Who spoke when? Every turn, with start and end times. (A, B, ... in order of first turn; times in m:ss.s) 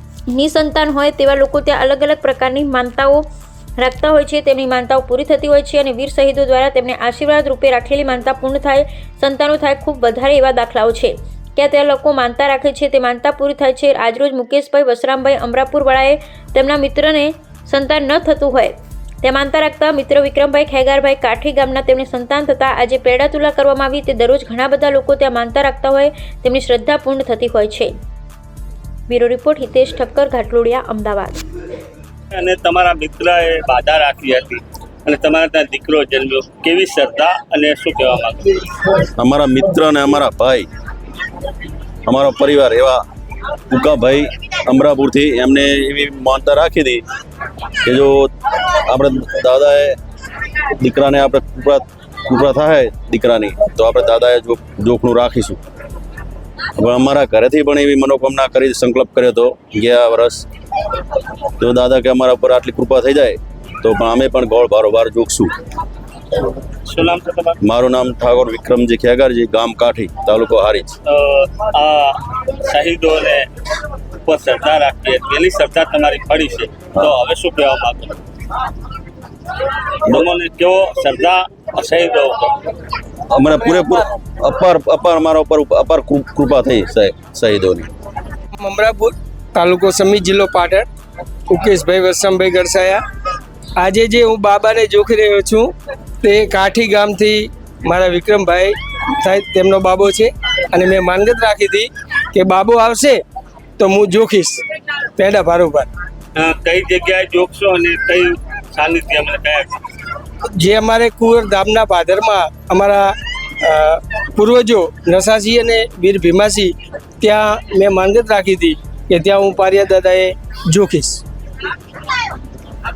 0:00.3-0:03.2 A
0:03.8-0:27.9 A
0:29.1-0:31.4 A
0:32.3-0:38.6 B
0:39.2-0:40.7 C
0:42.1-0:43.0 C
0:43.7-0:47.0 C
0:47.8-0:50.0 C
0:50.7-0:55.6 C
0:56.8-1:00.5 C
1:01.6-1:05.5 C
1:06.9-1:07.6 B
1:07.6-1:11.0 C
1:11.1-1:13.5 B
1:14.2-1:18.2 B
1:20.0-1:22.7 B
1:23.3-1:27.9 C
1:28.6-1:30.9 D
1:31.5-1:33.0 D
1:33.8-1:43.2 D
1:43.8-1:44.6 D
1:45.2-1:45.9 D
1:46.4-1:49.8 B
1:50.6-2:01.2 D